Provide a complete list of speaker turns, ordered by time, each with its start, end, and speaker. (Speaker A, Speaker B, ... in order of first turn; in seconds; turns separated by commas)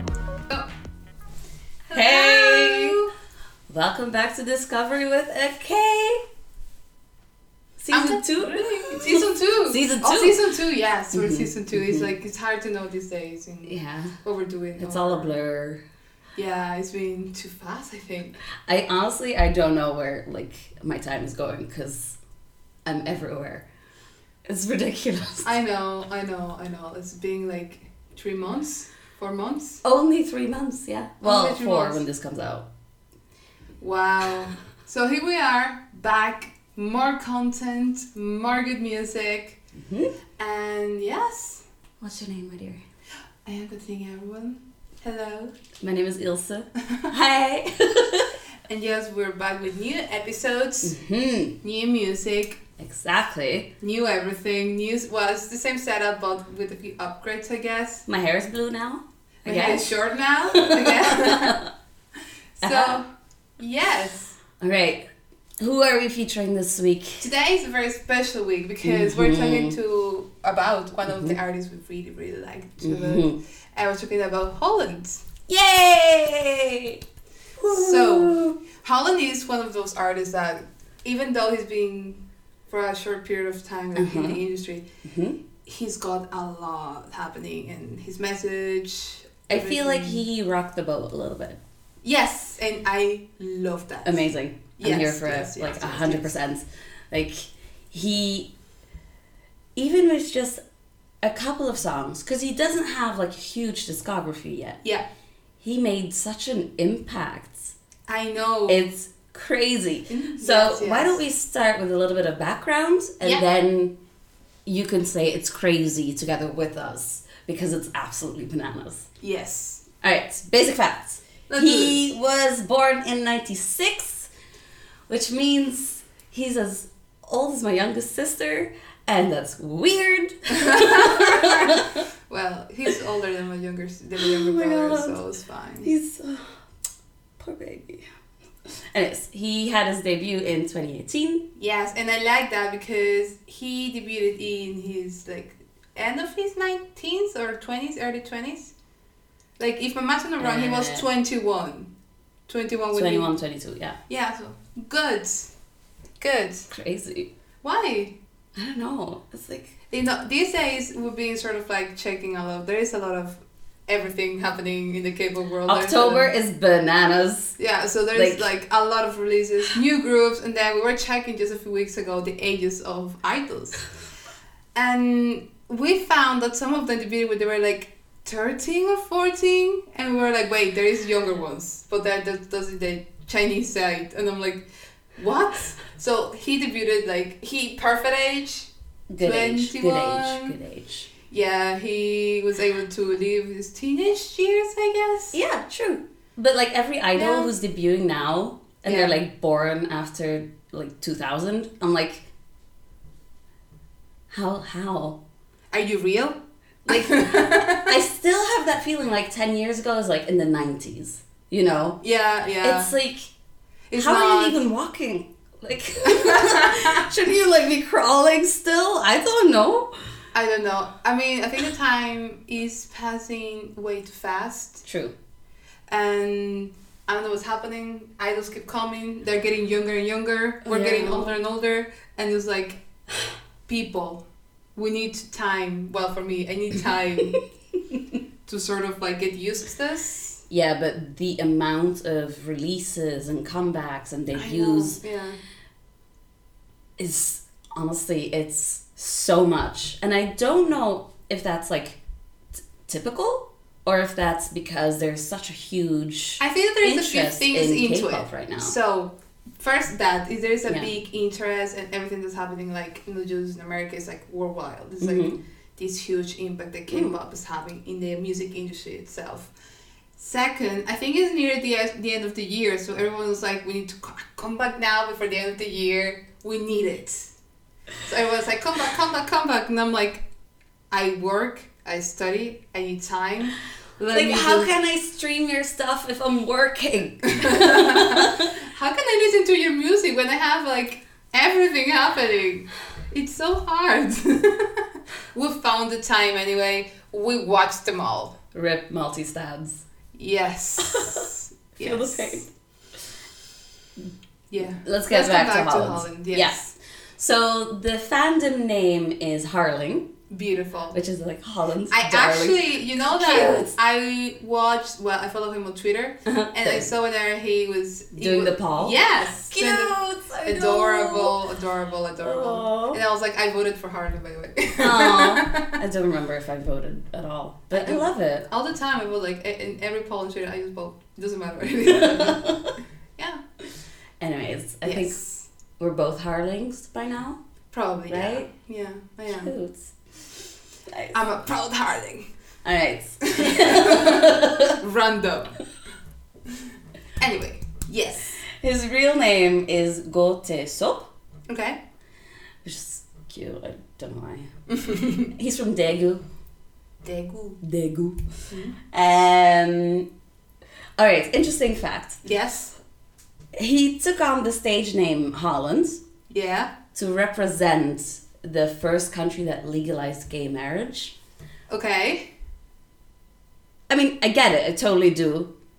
Speaker A: 1.9-3.1, Speaker B: 1.9-3.0, Speaker B: 3.7-6.2, Speaker B: 7.8-10.4, Speaker A: 7.9-15.3, Speaker B: 11.1-12.1, Speaker B: 13.6-14.2, Speaker B: 14.8-15.8, Speaker A: 16.4-18.4, Speaker B: 18.6-22.2, Speaker B: 22.9-23.6, Speaker B: 24.4-25.5, Speaker A: 25.4-29.8, Speaker B: 29.8-32.7, Speaker A: 31.2-32.0, Speaker A: 33.8-39.6, Speaker B: 39.8-40.1, Speaker A: 40.4-41.6, Speaker B: 42.0-42.8, Speaker A: 43.4-45.5, Speaker B: 45.8-48.3, Speaker A: 46.8-47.1, Speaker A: 48.6-51.0, Speaker B: 50.8-51.5, Speaker A: 51.6-52.6, Speaker B: 52.8-53.7, Speaker A: 53.8-58.1, Speaker B: 58.1-60.0, Speaker A: 59.4-61.6, Speaker B: 60.5-61.7, Speaker A: 62.6-63.0, Speaker B: 62.6-63.0, Speaker A: 63.6-64.4, Speaker B: 64.6-65.0, Speaker B: 65.6-67.3, Speaker A: 67.2-75.2, Speaker B: 68.8-69.8, Speaker B: 71.1-71.4, Speaker B: 72.8-73.4, Speaker B: 75.5-77.0, Speaker B: 77.6-78.6, Speaker A: 77.6-84.8, Speaker B: 84.0-84.4, Speaker B: 85.0-85.4, Speaker A: 85.6-90.2, Speaker B: 89.5-91.6, Speaker A: 92.0-96.3, Speaker B: 94.0-98.5, Speaker B: 99.8-100.6, Speaker B: 101.2-104.8, Speaker B: 105.6-107.7, Speaker A: 108.1-108.9, Speaker B: 108.7-113.9, Speaker A: 110.1-111.2, Speaker B: 114.7-119.1, Speaker A: 119.2-119.8, Speaker B: 120.0-124.3, Speaker A: 121.5-122.0, Speaker B: 125.1-132.0, Speaker A: 130.5-135.9, Speaker B: 134.2-135.2, Speaker B: 135.8-136.5, Speaker B: 137.4-138.0, Speaker B: 138.9-141.4, Speaker A: 141.6-148.7, Speaker A: 149.6-151.9, Speaker B: 150.4-151.1, Speaker A: 152.5-153.3, Speaker B: 152.9-154.0, Speaker A: 154.1-155.5, Speaker A: 156.2-156.7, Speaker B: 156.7-157.3, Speaker A: 157.6-158.1, Speaker B: 158.6-159.7, Speaker A: 159.9-166.3, Speaker B: 165.7-167.6, Speaker A: 167.6-173.9, Speaker B: 168.1-168.5, Speaker A: 174.7-188.7, Speaker B: 189.1-191.1, Speaker A: 189.2-190.5, Speaker A: 191.3-195.3, Speaker B: 195.3-202.3, Speaker A: 197.1-197.5, Speaker A: 198.8-199.1, Speaker B: 204.3-205.2, Speaker A: 205.7-207.9, Speaker B: 206.8-212.0, Speaker A: 212.0-212.9, Speaker B: 212.6-213.3, Speaker A: 213.9-214.6, Speaker B: 213.9-219.9, Speaker A: 216.0-217.1, Speaker A: 220.3-224.8, Speaker B: 224.8-225.1, Speaker A: 225.9-232.8, Speaker B: 230.6-231.3, Speaker A: 233.7-234.2, Speaker A: 234.8-237.4, Speaker A: 238.4-240.4, Speaker B: 240.5-245.0, Speaker A: 244.3-245.4, Speaker B: 247.0-252.0, Speaker B: 252.6-258.8, Speaker A: 256.4-269.5, Speaker B: 265.0-265.4, Speaker A: 270.2-277.3, Speaker A: 278.1-280.2, Speaker A: 280.9-284.7, Speaker B: 284.1-288.6, Speaker A: 287.3-298.4, Speaker B: 298.5-299.8, Speaker A: 300.1-302.5, Speaker B: 300.8-302.5, Speaker A: 304.5-306.6, Speaker B: 304.8-310.1, Speaker A: 310.3-311.0, Speaker B: 310.9-313.8, Speaker A: 311.9-325.8, Speaker B: 316.2-316.9, Speaker B: 318.1-321.4, Speaker B: 322.2-323.0, Speaker B: 324.8-328.5, Speaker A: 327.7-332.5, Speaker B: 331.9-332.8, Speaker A: 333.2-333.4, Speaker B: 334.2-335.3, Speaker A: 334.8-335.4, Speaker B: 335.8-337.4, Speaker A: 337.7-339.5, Speaker B: 338.1-338.5, Speaker B: 339.3-339.9, Speaker B: 340.9-341.1, Speaker A: 341.1-342.3, Speaker B: 342.6-344.8, Speaker A: 343.3-345.6, Speaker A: 347.2-348.4, Speaker B: 348.4-351.1, Speaker A: 351.5-351.8, Speaker B: 352.6-356.2, Speaker A: 354.7-355.3, Speaker A: 357.0-357.6, Speaker B: 357.6-358.3, Speaker A: 358.5-358.8, Speaker B: 358.9-360.1, Speaker B: 361.0-362.2, Speaker A: 362.2-362.8, Speaker B: 363.6-366.0, Speaker A: 366.3-366.7, Speaker B: 366.9-371.1, Speaker A: 371.7-372.3, Speaker B: 373.9-375.5